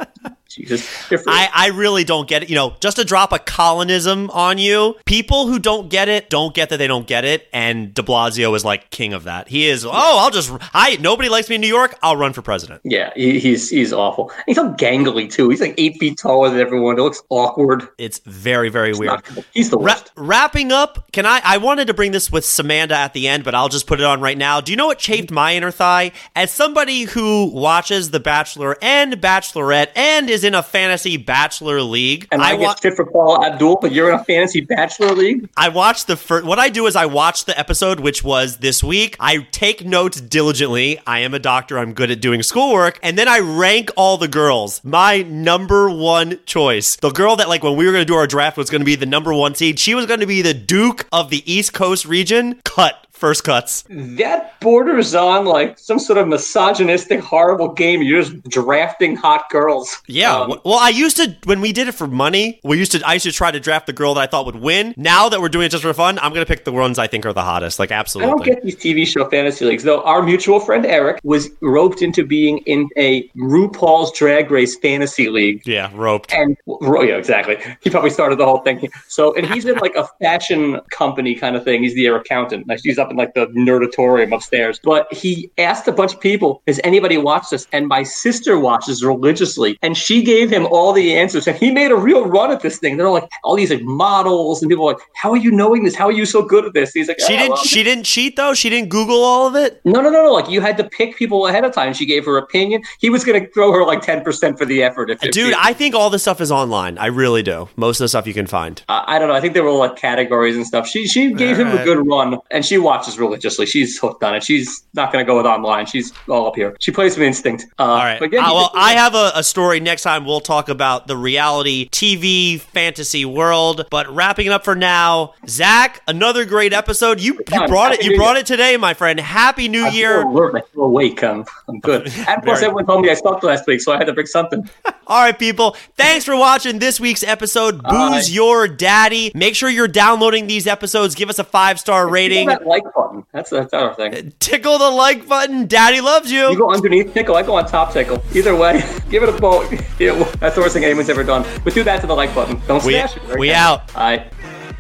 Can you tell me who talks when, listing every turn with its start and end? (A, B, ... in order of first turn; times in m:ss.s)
0:00.5-0:01.4 A
0:01.3-0:12.8 B
0:12.8-0:17.9 A
0:18.0-0:19.2 B
0:19.0-0:20.0 A
0:19.8-0:32.8 B
0:32.3-0:35.5 A
0:35.6-0:53.8 B
0:53.9-1:00.6 A
1:00.1-1:08.5 B
1:08.2-1:15.6 A
1:15.7-1:16.4 B
1:16.3-1:37.8 A
1:37.2-1:39.8 B
1:39.8-1:45.7 A
1:45.2-1:48.8 B
1:48.9-1:59.0 A
1:51.3-1:51.9 B
1:57.9-2:10.3 B
2:07.4-2:08.3 A
2:09.8-2:14.7 A
2:11.9-2:12.7 B
2:15.1-2:22.6 B
2:17.8-2:18.3 A
2:22.1-2:24.2 A
2:24.1-2:26.6 B
2:26.5-2:34.3 A
2:32.8-2:33.8 B